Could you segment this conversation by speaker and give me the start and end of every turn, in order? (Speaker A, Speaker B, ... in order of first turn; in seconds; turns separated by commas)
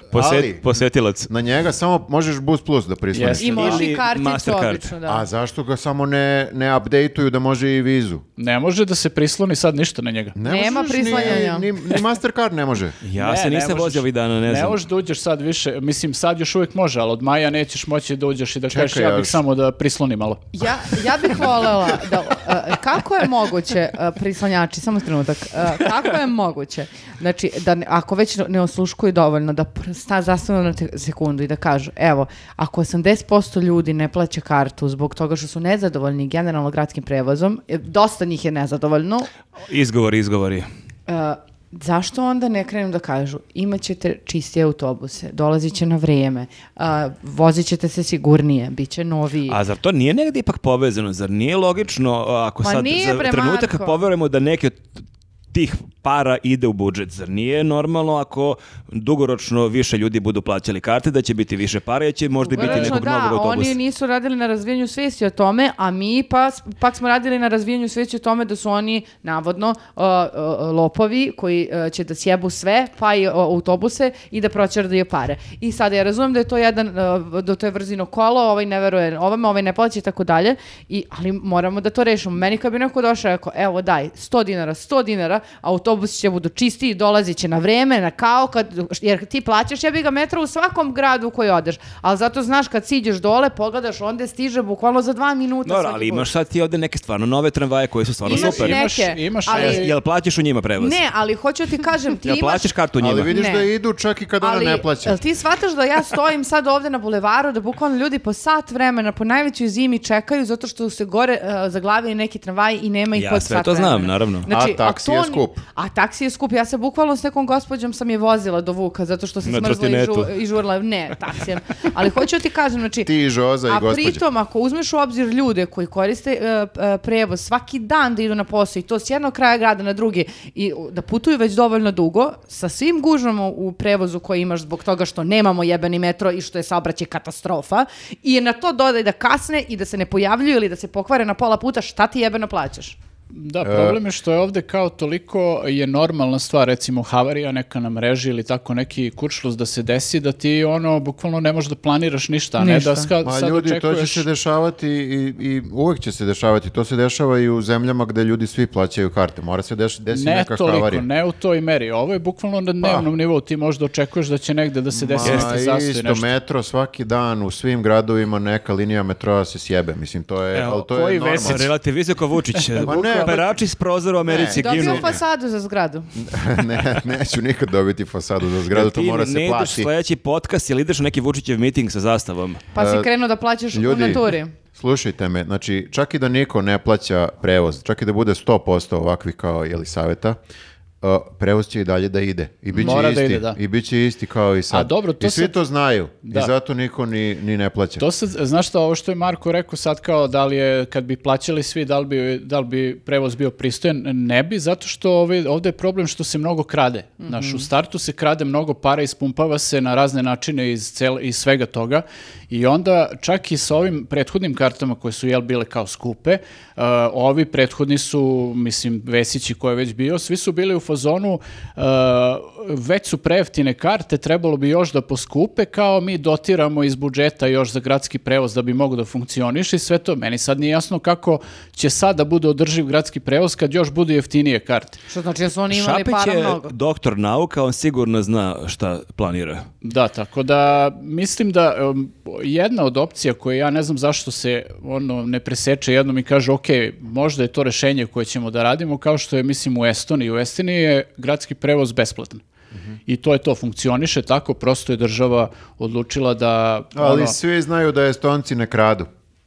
Speaker A: 0.1-0.6, Speaker B: 0.1-1.3, Speaker A: 1.3-3.8, Speaker C: 3.1-3.7, Speaker D: 3.4-5.2, Speaker B: 3.4-4.9, Speaker A: 5.0-8.2, Speaker C: 8.4-10.4, Speaker A: 10.3-13.0, Speaker D: 10.4-11.7, Speaker C: 11.0-11.4, Speaker B: 13.0-14.8, Speaker C: 13.2-20.6, Speaker A: 18.7-19.4, Speaker D: 20.5-39.3, Speaker B: 39.6-40.7, Speaker D: 41.1-49.6, Speaker B: 49.5-54.9, Speaker D: 52.6-54.0, Speaker B: 55.5-63.8, Speaker D: 62.4-96.3, Speaker C: 62.6-63.0, Speaker B: 95.6-98.8, Speaker D: 98.2-99.9, Speaker C: 98.3-99.9, Speaker B: 99.5-101.0, Speaker D: 100.8-102.7, Speaker B: 102.2-103.3, Speaker A: 103.0-105.2, Speaker D: 103.3-103.7, Speaker D: 104.4-123.1, Speaker B: 113.1-114.5, Speaker A: 114.5-115.6, Speaker B: 119.4-120.3, Speaker A: 123.0-124.2, Speaker D: 123.7-142.9, Speaker C: 143.3-154.2, Speaker A: 143.6-144.0, Speaker D: 152.6-153.1, Speaker A: 153.2-161.0, Speaker C: 160.1-166.3, Speaker A: 164.9-171.7, Speaker B: 165.2-165.5, Speaker B: 170.5-170.8, Speaker C: 170.8-171.7, Speaker B: 171.4-175.2, Speaker C: 172.6-173.4, Speaker A: 172.8-173.5, Speaker A: 174.3-175.2, Speaker D: 174.3-176.1, Speaker A: 176.2-179.9, Speaker B: 178.7-182.6, Speaker D: 182.7-184.5, Speaker A: 182.7-183.1, Speaker A: 183.7-190.4, Speaker A: 191.0-198.0, Speaker C: 192.7-193.6, Speaker C: 194.7-195.6, Speaker C: 196.2-196.5, Speaker C: 198.0-235.0, Speaker D: 207.2-207.7, Speaker D: 235.1-236.7, Speaker B: 235.7-239.7, Speaker C: 239.8-252.4, Speaker C: 253.1-257.4, Speaker A: 256.9-259.1